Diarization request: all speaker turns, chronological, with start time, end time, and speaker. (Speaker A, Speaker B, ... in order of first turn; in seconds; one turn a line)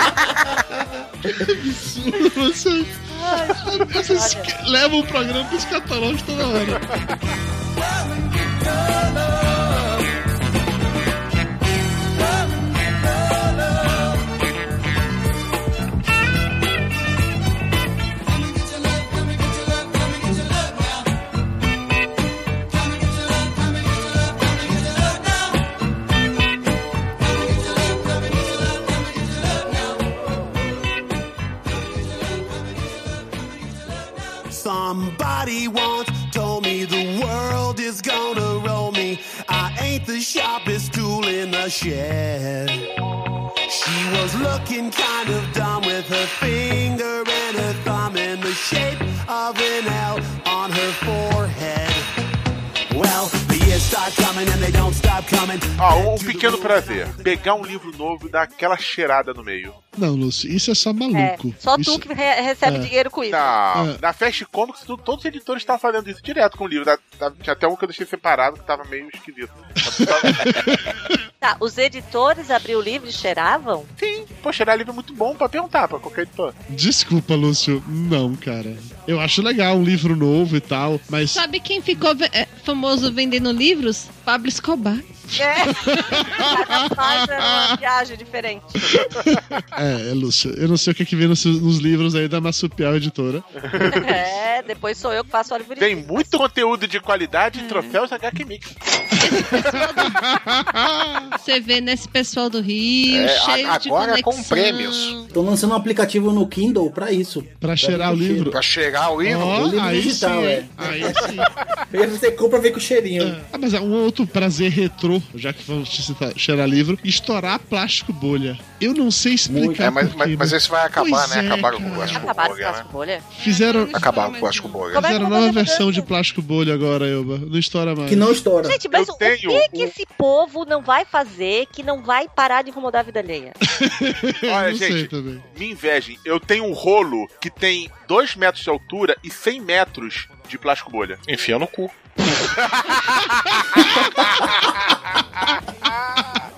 Speaker A: 1.3-6.8
Speaker B: 3.1-4.5
Speaker C: 34.5-42.8
Speaker C: 43.7-52.0
Speaker C: 52.9-57.6
Speaker D: 55.8-59.8
Speaker A: 60.0-62.0
Speaker B: 61.1-63.5
Speaker A: 62.6-62.9
Speaker D: 63.3-70.6
Speaker A: 69.9-71.0
Speaker B: 71.4-73.9
Speaker D: 74.0-76.5
Speaker A: 76.7-81.4
Speaker E: 81.3-85.0
Speaker B: 85.3-89.1
Speaker A: 85.7-87.8
Speaker A: 88.9-93.5
Speaker D: 93.6-94.2
Speaker B: 93.9-96.4
Speaker D: 95.8-98.8
Speaker E: 97.5-98.0
Speaker E: 99.2-100.2
Speaker A: 99.5-101.3
Speaker E: 101.4-105.3
Speaker F: 103.1-105.2
Speaker G: 105.3-108.5
Speaker A: 107.6-108.6
Speaker F: 108.5-109.7
Speaker A: 109.2-111.5
Speaker G: 109.4-111.3
Speaker G: 111.9-113.4
Speaker A: 113.2-122.4
Speaker G: 119.5-119.9
Speaker F: 119.8-122.9
Speaker B: 122.1-123.2
Speaker A: 123.3-124.1
Speaker E: 123.4-125.0
Speaker F: 123.9-125.1
Speaker B: 124.9-126.0
Speaker A: 124.9-128.4
Speaker G: 128.1-128.8
Speaker B: 128.6-133.6
Speaker D: 128.9-129.9
Speaker A: 133.7-135.4
Speaker D: 134.4-141.2
Speaker F: 141.2-141.9
Speaker D: 142.7-144.8
Speaker A: 143.7-144.1
Speaker D: 145.4-146.3